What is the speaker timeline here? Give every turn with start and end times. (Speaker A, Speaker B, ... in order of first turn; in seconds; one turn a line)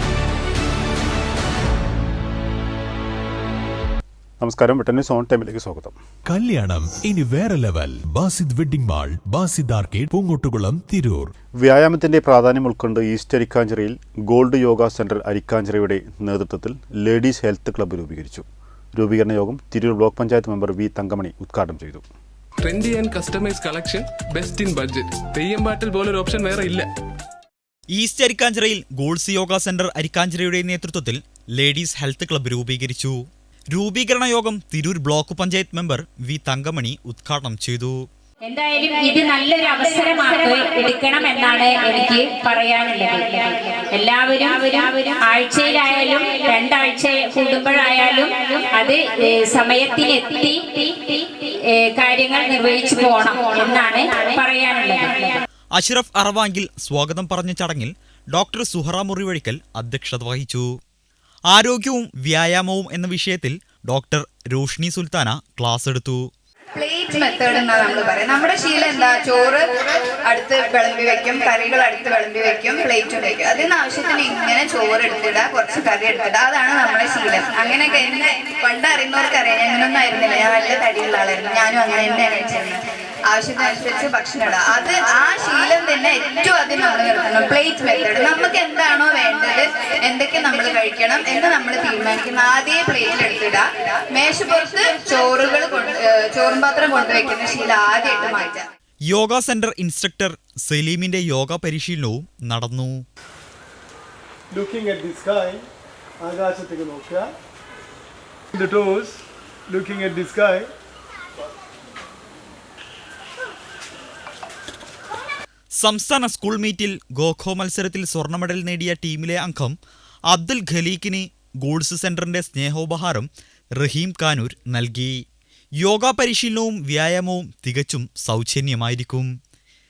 Speaker A: 4.4-6.0
Speaker B: 6.2-11.3
Speaker A: 11.6-22.0
Speaker C: 22.6-26.9
Speaker D: 27.9-33.2
Speaker D: 33.7-38.0
Speaker E: 38.5-55.4
Speaker D: 55.7-60.7
Speaker D: 61.5-66.3
Speaker F: 66.7-98.7
Speaker D: 99.1-103.0
Speaker G: 104.5-105.6
Speaker G: 106.2-107.3
Speaker G: 108.5-110.7
Speaker D: 115.7-119.8
Speaker D: 120.3-125.2
Speaker D: 125.8-129.3